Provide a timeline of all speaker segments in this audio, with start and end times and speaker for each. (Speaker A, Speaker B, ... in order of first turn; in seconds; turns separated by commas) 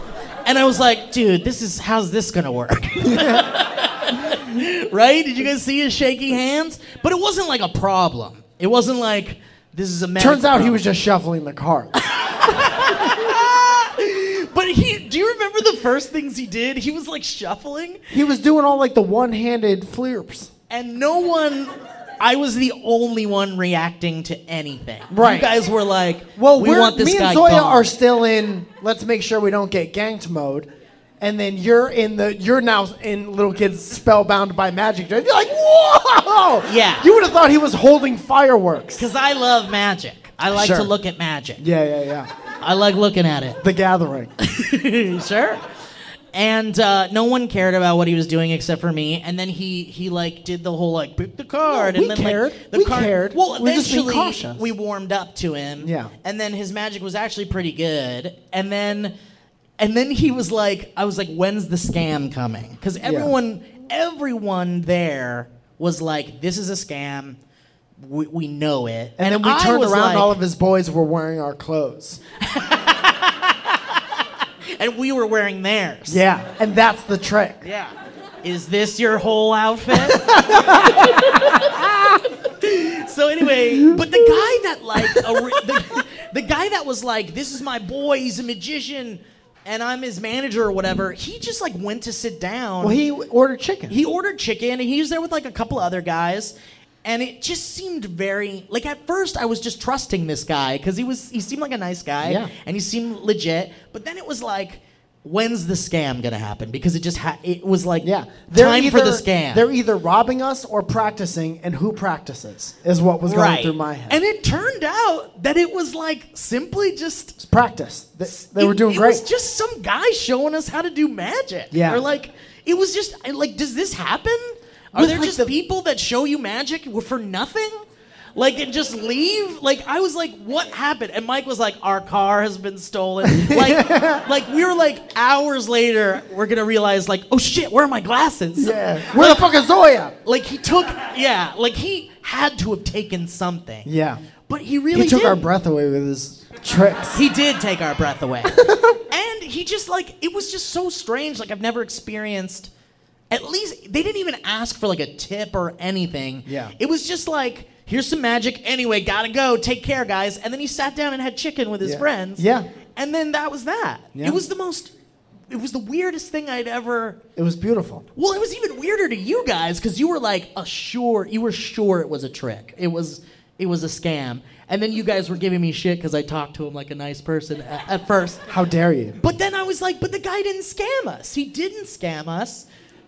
Speaker A: 0.4-10.8, Speaker B: 3.0-3.5, Speaker B: 10.2-11.9, Speaker A: 12.1-18.0, Speaker B: 12.8-13.3, Speaker B: 18.1-20.5, Speaker A: 20.7-27.9, Speaker B: 25.1-25.5, Speaker B: 26.4-30.7, Speaker B: 31.2-39.1, Speaker A: 36.6-37.1, Speaker A: 39.0-41.6, Speaker B: 40.5-40.9, Speaker B: 41.6-42.3, Speaker A: 42.6-43.6, Speaker B: 43.6-44.3, Speaker A: 44.4-45.6, Speaker A: 46.3-59.1, Speaker B: 51.7-54.7, Speaker B: 55.8-56.1, Speaker A: 59.8-67.4, Speaker B: 63.0-63.3, Speaker A: 68.0-70.4, Speaker B: 69.2-72.2, Speaker A: 72.4-74.0, Speaker A: 74.7-76.2, Speaker B: 76.1-77.6, Speaker A: 77.6-81.5, Speaker B: 79.9-82.1, Speaker A: 82.5-93.0, Speaker B: 83.9-84.1, Speaker B: 85.0-85.6, Speaker B: 92.8-94.0, Speaker A: 93.9-109.7, Speaker B: 102.2-102.5, Speaker B: 108.0-114.2, Speaker A: 113.2-117.4, Speaker B: 117.4-119.2, Speaker A: 118.2-127.8, Speaker B: 121.7-122.0, Speaker B: 124.9-125.5, Speaker A: 128.3-139.5, Speaker B: 133.2-134.2, Speaker B: 138.6-140.1, Speaker A: 140.2-143.9, Speaker B: 143.8-144.2, Speaker A: 144.5-145.4, Speaker B: 144.9-147.2, Speaker A: 147.1-152.7, Speaker B: 148.5-149.0, Speaker A: 153.3-164.9, Speaker B: 156.4-156.7, Speaker B: 161.8-162.7, Speaker B: 164.1-164.4, Speaker A: 165.5-167.2, Speaker B: 167.3-168.0, Speaker A: 168.2-178.4, Speaker B: 178.5-179.2, Speaker A: 179.2-182.7